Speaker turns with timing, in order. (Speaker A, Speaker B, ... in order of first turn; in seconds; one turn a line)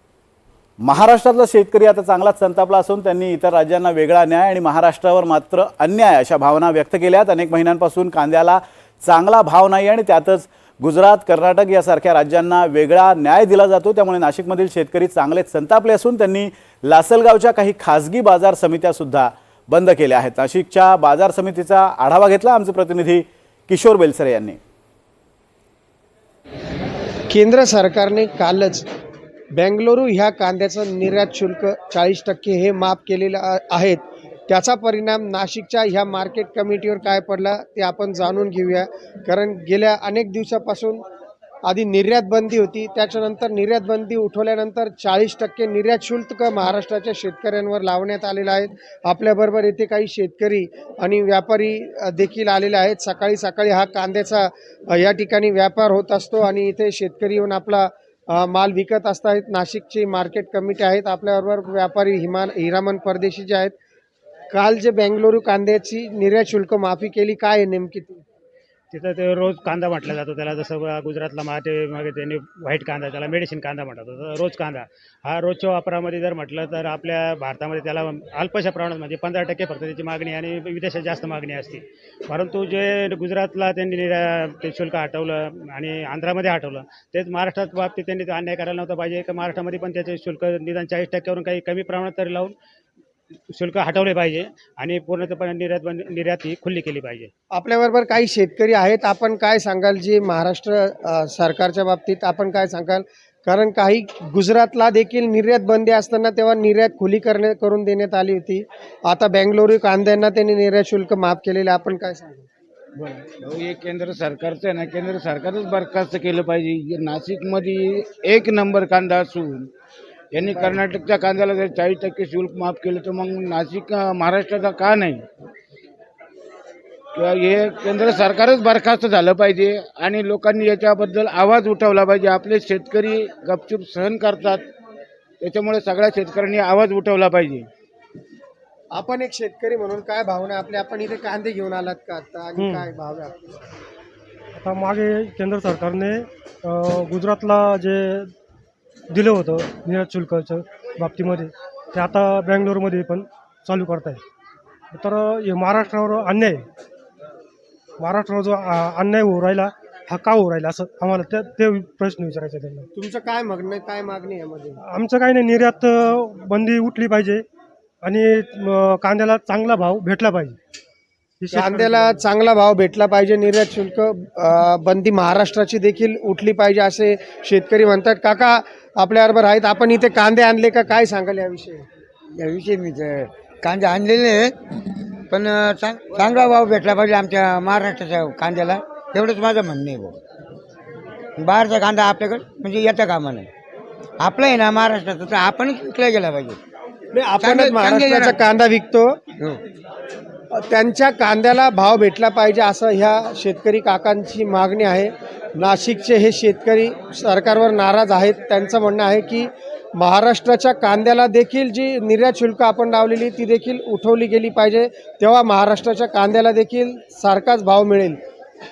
Speaker A: 0.8-24.6
Speaker B: 27.3-28.8
Speaker B: 29.5-41.0
Speaker B: 41.6-63.7
Speaker B: 64.5-68.2
Speaker C: 68.9-92.5
Speaker C: 93.5-97.3
Speaker B: 97.5-112.5
Speaker D: 113.0-119.7
Speaker D: 120.3-125.2
Speaker D: 127.1-134.7
Speaker D: 135.4-137.7
Speaker B: 138.9-143.4
Speaker E: 142.6-142.8
Speaker E: 144.6-148.3
Speaker E: 149.1-154.2
Speaker E: 154.9-156.7
Speaker E: 158.0-162.9
Speaker B: 162.9-164.8
Speaker E: 164.8-167.4
Speaker E: 168.0-170.6
Speaker E: 171.4-172.2
Speaker B: 171.5-181.8
Speaker F: 182.3-184.6
Speaker F: 185.3-190.2
Speaker F: 191.3-193.5
Speaker F: 194.2-196.6
Speaker B: 197.1-199.2
Speaker F: 197.4-198.4
Speaker B: 200.5-218.2